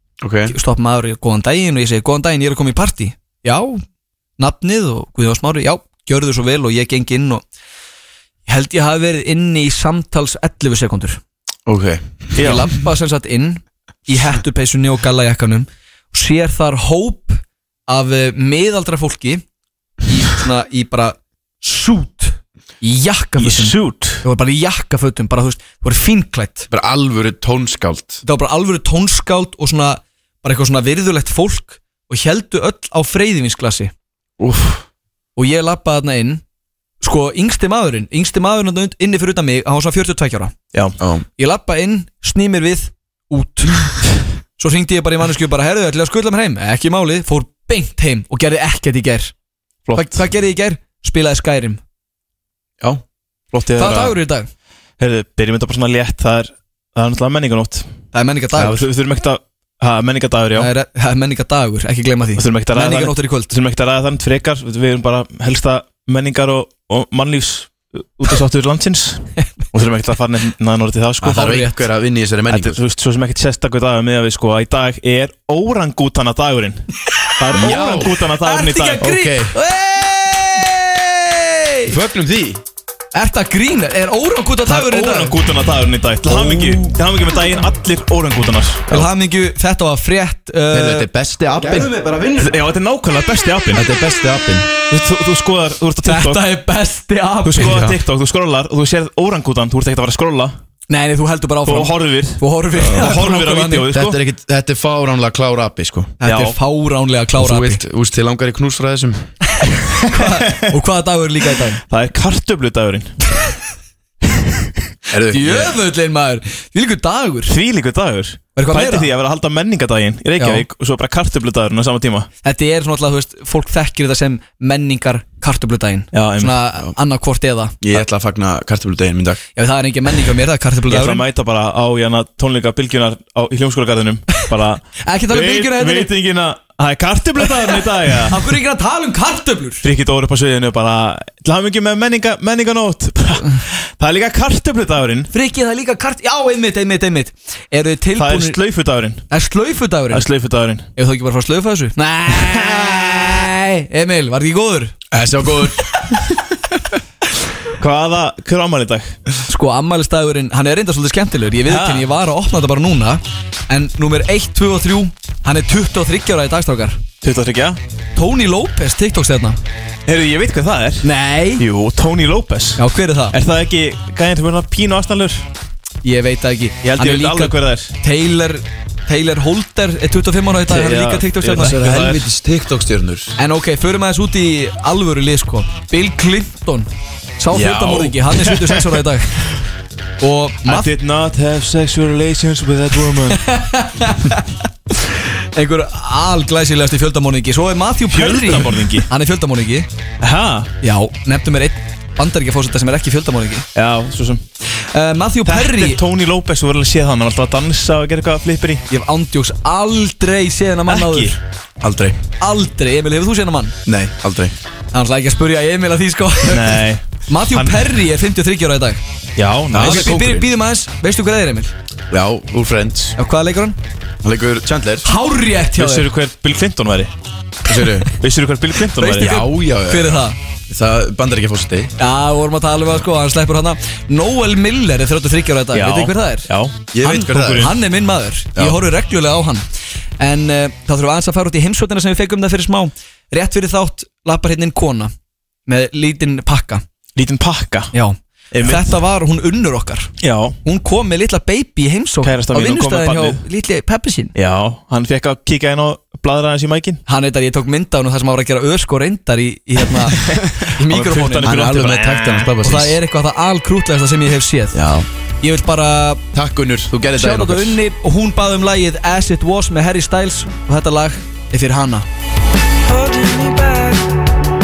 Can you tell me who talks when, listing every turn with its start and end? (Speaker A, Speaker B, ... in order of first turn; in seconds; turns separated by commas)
Speaker A: 0.2-0.6, Speaker B: 0.5-3.8, Speaker B: 4.4-7.4, Speaker B: 8.5-11.2, Speaker A: 11.7-12.6, Speaker C: 12.4-12.7, Speaker B: 12.4-19.4, Speaker B: 20.0-26.7, Speaker C: 23.4-24.2, Speaker A: 26.7-28.2, Speaker B: 28.2-33.9, Speaker A: 34.4-34.9, Speaker B: 35.4-36.4, Speaker B: 37.0-40.5, Speaker A: 41.0-41.3, Speaker B: 41.4-44.0, Speaker B: 44.6-49.3, Speaker A: 49.9-50.2, Speaker B: 50.0-51.8, Speaker A: 52.8-53.9, Speaker C: 53.6-54.2, Speaker B: 53.8-54.5, Speaker C: 55.0-57.9, Speaker B: 58.1-58.8, Speaker C: 58.6-60.7, Speaker B: 60.6-63.5, Speaker C: 62.4-71.7, Speaker A: 71.2-72.8, Speaker B: 71.3-71.8, Speaker C: 72.5-76.8, Speaker C: 77.4-79.1, Speaker A: 77.5-78.2, Speaker B: 78.4-82.0, Speaker A: 79.0-79.5, Speaker A: 81.9-82.6, Speaker B: 83.1-85.3, Speaker C: 84.7-89.0, Speaker A: 86.3-86.8, Speaker B: 88.9-91.1, Speaker A: 90.7-92.6, Speaker C: 92.4-93.9, Speaker A: 93.8-94.7, Speaker C: 94.9-96.4, Speaker B: 96.0-97.8, Speaker C: 97.5-100.5, Speaker A: 97.6-98.0, Speaker B: 100.9-103.9, Speaker C: 101.7-104.2, Speaker A: 102.8-103.2, Speaker A: 103.9-106.2, Speaker B: 106.2-107.8, Speaker C: 106.2-106.6, Speaker A: 107.4-109.3, Speaker B: 110.0-111.8, Speaker C: 110.2-110.6, Speaker C: 111.9-113.1, Speaker A: 115.1-115.8, Speaker B: 115.3-117.5, Speaker C: 117.5-122.3, Speaker B: 118.6-119.1, Speaker B: 120.4-120.7, Speaker B: 122.4-127.8, Speaker C: 126.1-126.6, Speaker A: 127.8-129.4, Speaker B: 129.6-131.2, Speaker C: 130.9-138.6, Speaker B: 135.0-136.1, Speaker B: 138.3-139.8, Speaker C: 139.8-145.3, Speaker B: 145.3-148.6, Speaker C: 148.2-149.3, Speaker B: 149.3-150.3, Speaker C: 150.1-150.9, Speaker B: 151.0-155.0, Speaker C: 152.3-152.9, Speaker A: 155.1-156.1, Speaker C: 157.8-159.2, Speaker B: 159.5-167.0, Speaker C: 161.7-162.1, Speaker C: 167.2-167.8, Speaker B: 168.2-169.6, Speaker C: 170.1-175.5, Speaker B: 171.0-171.6, Speaker B: 172.8-173.4, Speaker B: 176.0-181.8, Speaker C: 176.8-177.9, Speaker C: 180.7-182.3, Speaker A: 181.5-183.4, Speaker B: 183.4-189.5, Speaker A: 187.5-188.2, Speaker B: 190.2-190.9, Speaker C: 190.7-193.4, Speaker B: 193.3-199.9, Speaker C: 198.1-199.1, Speaker C: 200.2-200.7, Speaker B: 200.8-203.7, Speaker C: 203.8-204.4, Speaker B: 204.9-206.0, Speaker C: 205.4-208.8, Speaker B: 208.9-211.4, Speaker C: 210.9-211.4, Speaker A: 211.8-212.2, Speaker B: 212.4-213.8, Speaker A: 213.8-214.6, Speaker B: 214.9-219.0, Speaker C: 216.5-218.0, Speaker C: 219.4-220.2, Speaker A: 219.7-220.5, Speaker B: 219.8-221.7, Speaker A: 222.1-223.2, Speaker B: 223.2-223.8, Speaker A: 224.2-225.1, Speaker B: 225.0-226.1, Speaker C: 225.8-227.1, Speaker A: 227.7-228.1, Speaker C: 228.2-229.3, Speaker B: 229.0-230.4, Speaker A: 229.2-231.9, Speaker B: 232.0-236.5, Speaker C: 235.7-237.7, Speaker A: 236.9-237.7, Speaker B: 237.0-239.6, Speaker B: 240.2-245.1, Speaker B: 245.7-246.8, Speaker C: 247.2-247.9, Speaker B: 247.9-250.1, Speaker C: 248.5-248.9, Speaker C: 250.2-250.6, Speaker B: 250.6-254.3, Speaker C: 252.2-253.4, Speaker C: 254.3-257.0, Speaker B: 257.1-260.2, Speaker C: 260.2-262.5, Speaker A: 260.2-263.0, Speaker B: 260.8-261.6, Speaker B: 262.6-264.8, Speaker A: 264.7-265.1, Speaker B: 265.4-266.2, Speaker A: 266.3-267.8, Speaker B: 267.2-272.1, Speaker B: 272.9-274.0